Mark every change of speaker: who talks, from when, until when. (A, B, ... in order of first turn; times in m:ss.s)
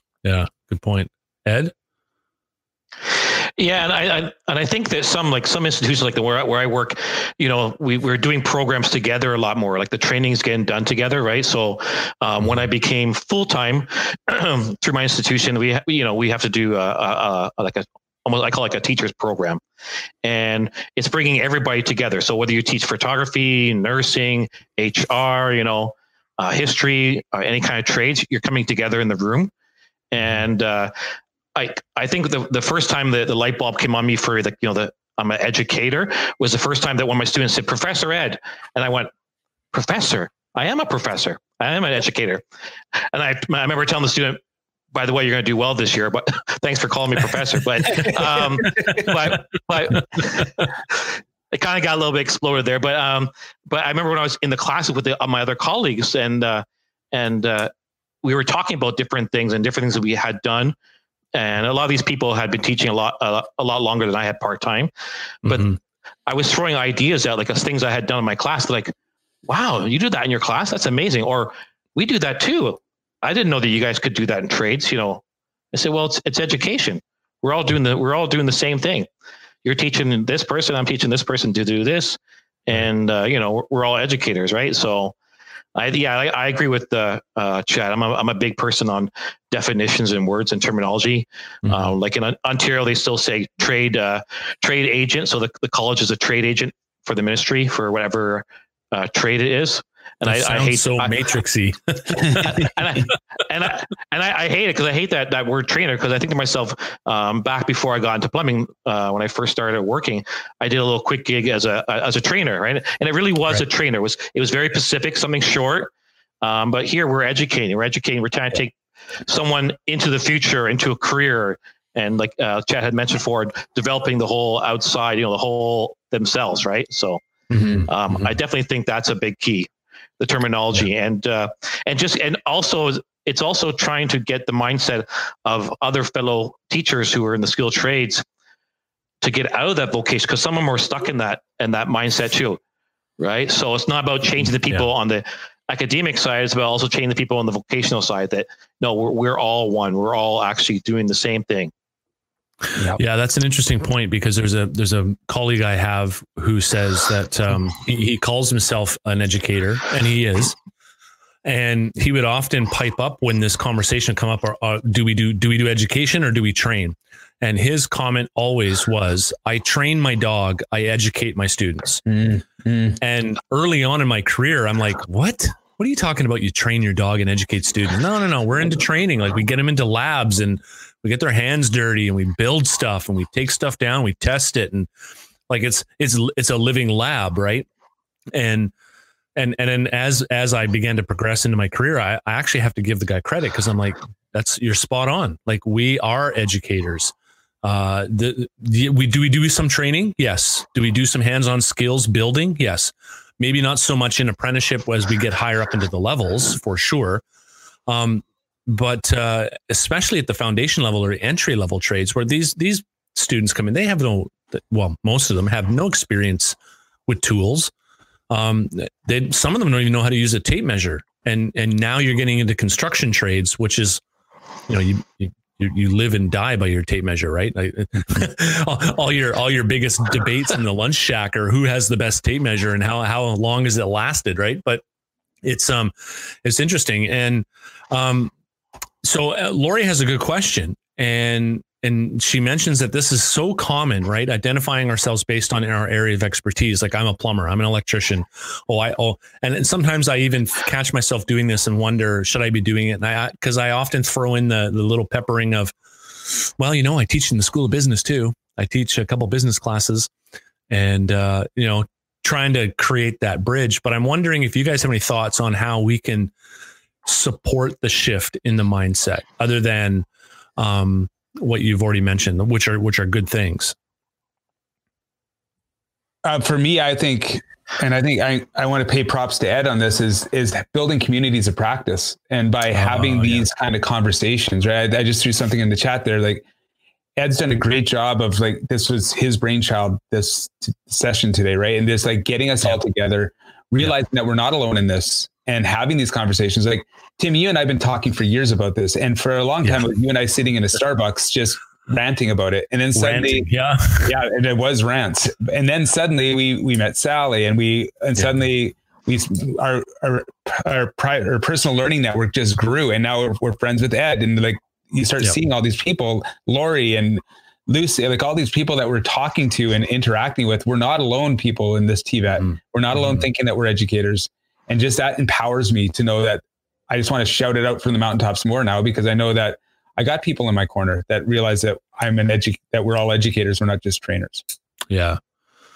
0:00.2-0:01.7 A
0:03.6-0:19.6 B
0:20.2-0:29.5 B
0:30.1-0:30.9 B
0:31.5-0:39.1 B
0:39.7-0:42.4 B
0:43.1-0:44.4 B
0:44.9-0:57.7 B
0:58.2-1:00.7 B
1:01.3-1:04.9 B
1:05.4-1:05.7 B
1:05.4-1:05.8 A
1:06.2-1:08.9 B
1:09.4-1:15.2 B
1:15.7-1:19.1 B
1:19.6-1:25.1 B
1:25.7-1:41.2 B
1:31.6-1:31.9 A
1:40.2-1:42.7 A
1:42.2-1:55.9 B
1:56.4-1:58.7 B
1:59.2-2:07.2 B
2:07.5-2:08.3 A
2:07.6-2:07.8 C
2:07.9-2:18.2 B
2:19.2-2:22.6 B
2:23.2-2:31.7 B
2:32.9-2:40.6 A
2:41.4-2:52.0 A
2:52.0-2:53.0 C
2:53.0-3:04.9 A
3:05.5-3:07.6 A
3:08.3-3:08.7 A
3:09.4-3:27.2 A
3:27.9-3:36.6 A
3:37.1-3:37.7 A
3:38.3-3:44.0 A
3:44.7-3:54.8 A
3:55.4-3:55.9 A
3:56.4-3:58.3 A
3:59.0-4:20.1 A
4:20.7-4:26.3 A
4:27.0-4:30.0 A
4:30.6-4:33.7 A
4:36.2-4:46.4 C
4:42.7-4:43.4 A
4:47.2-5:03.5 C
5:02.9-5:04.2 A
5:04.0-5:34.4 C
5:22.4-5:23.2 A
5:34.9-5:35.2 A